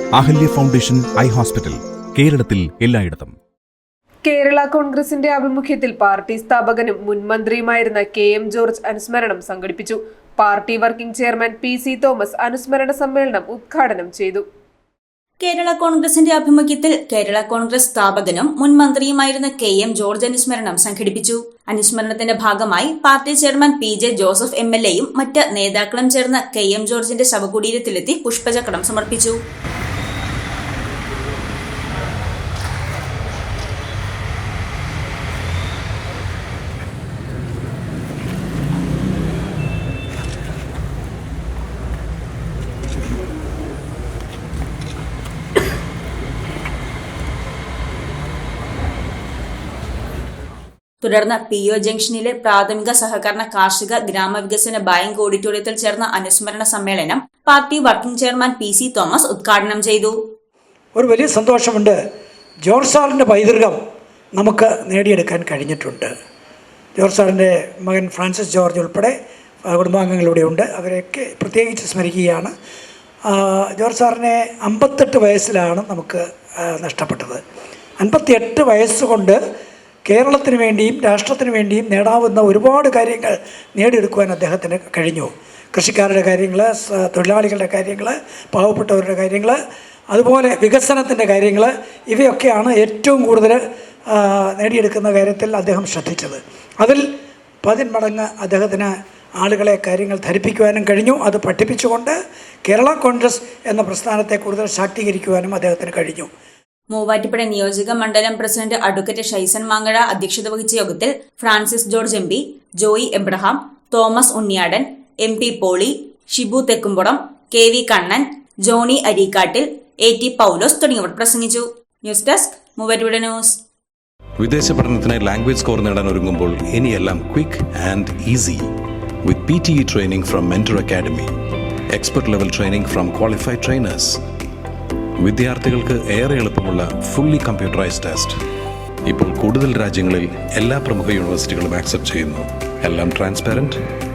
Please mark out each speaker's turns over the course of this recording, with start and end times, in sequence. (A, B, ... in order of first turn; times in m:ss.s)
0:00.2-0:03.4 A
0:04.2-0:14.4 B
0:15.4-0:29.4 C
0:51.0-1:00.2 C
1:01.0-1:02.0 D
1:02.6-1:03.7 D
1:04.4-1:06.1 D
1:07.0-1:09.1 D
1:09.7-1:12.5 D
1:13.3-1:17.4 D
1:18.0-1:19.4 D
1:20.1-1:29.6 D
1:30.1-1:33.6 D
1:34.1-1:37.0 D
1:37.6-1:42.1 D
1:42.6-1:46.3 D
1:46.9-2:03.6 C
2:04.4-2:08.7 E
2:09.2-2:11.3 E
2:11.9-2:14.2 E
2:15.2-2:18.4 E
2:19.0-2:23.8 E